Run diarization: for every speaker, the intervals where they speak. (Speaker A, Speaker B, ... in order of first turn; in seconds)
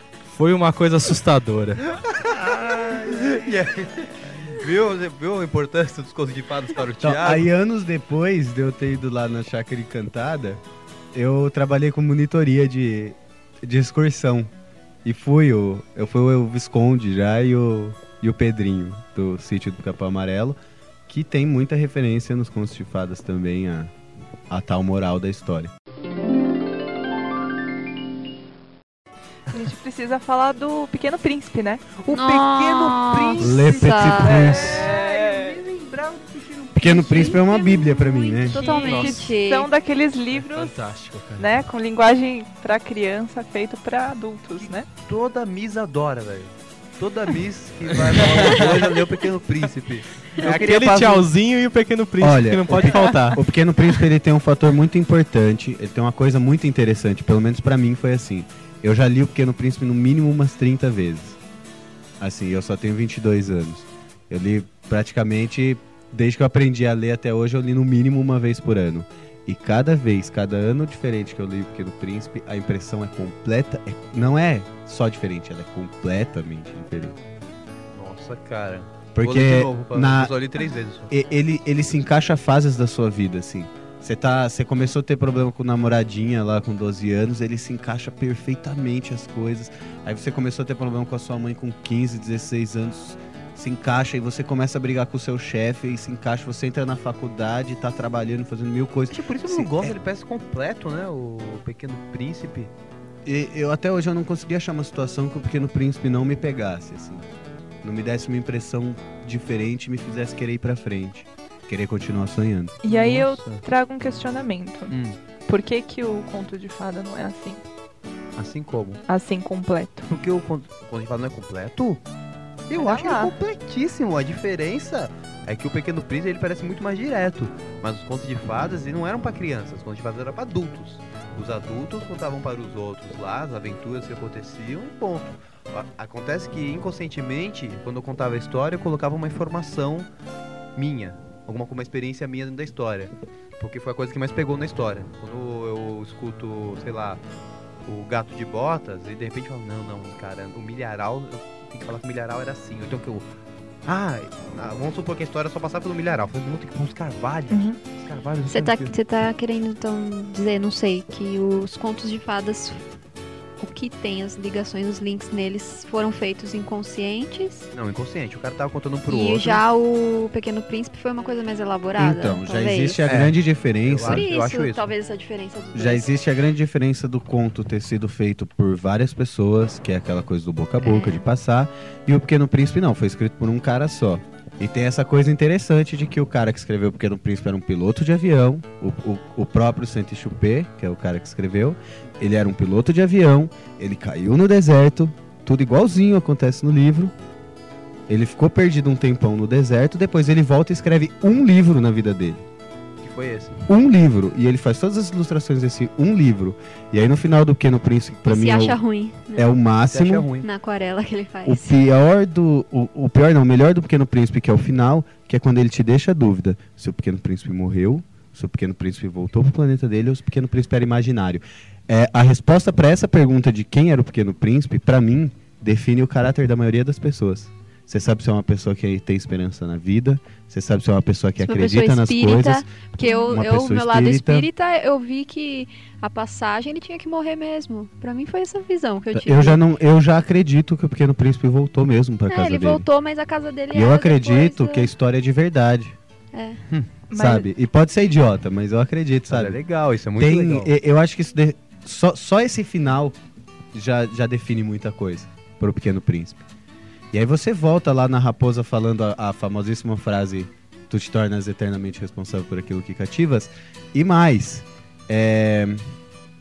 Speaker A: 0.3-1.8, 38.8-39.3, 40.3-41.5, 48.0-49.1, 50.3-53.4
Speaker B: 2.1-7.5, 32.0-37.4, 44.6-51.3, 77.9-81.1, 99.1-102.7, 112.9-113.6, 114.9-115.2, 118.3-119.0, 120.1-122.0, 122.7-140.1, 140.7-147.2, 147.8-153.3, 153.8-158.9, 167.7-169.6, 173.1-174.9, 203.0-203.6, 209.9-210.5, 249.3-250.7
Speaker C: 7.0-10.6, 11.1-14.5, 15.0-20.6, 21.1-23.9, 24.5-25.7, 33.4-34.9, 36.7-38.6, 52.2-61.4, 62.2-77.2, 79.1-80.3, 81.1-100.0, 103.2-107.3, 107.8-112.8, 172.0-174.3, 175.7-197.1, 198.1-202.4, 203.7-208.8, 209.3-210.3, 211.4-234.5, 239.1-242.9, 243.7-246.0, 247.1-249.6, 250.2-253.2, 253.7-256.4, 257.1-265.9
Speaker D: 29.5-31.9, 34.2-35.6, 38.5-40.7, 41.4-44.9, 112.8-114.9, 115.5-117.6, 119.1-120.1, 122.7-123.3, 157.5-157.8, 247.1-247.5
Speaker E: 32.1-34.5, 36.9-39.7, 52.9-53.3, 158.5-162.8, 163.6-167.7, 169.1-173.1, 174.0-176.1, 180.8-181.2, 208.3-209.5, 210.4-211.7, 231.4-239.6, 242.3-244.9, 246.3-246.6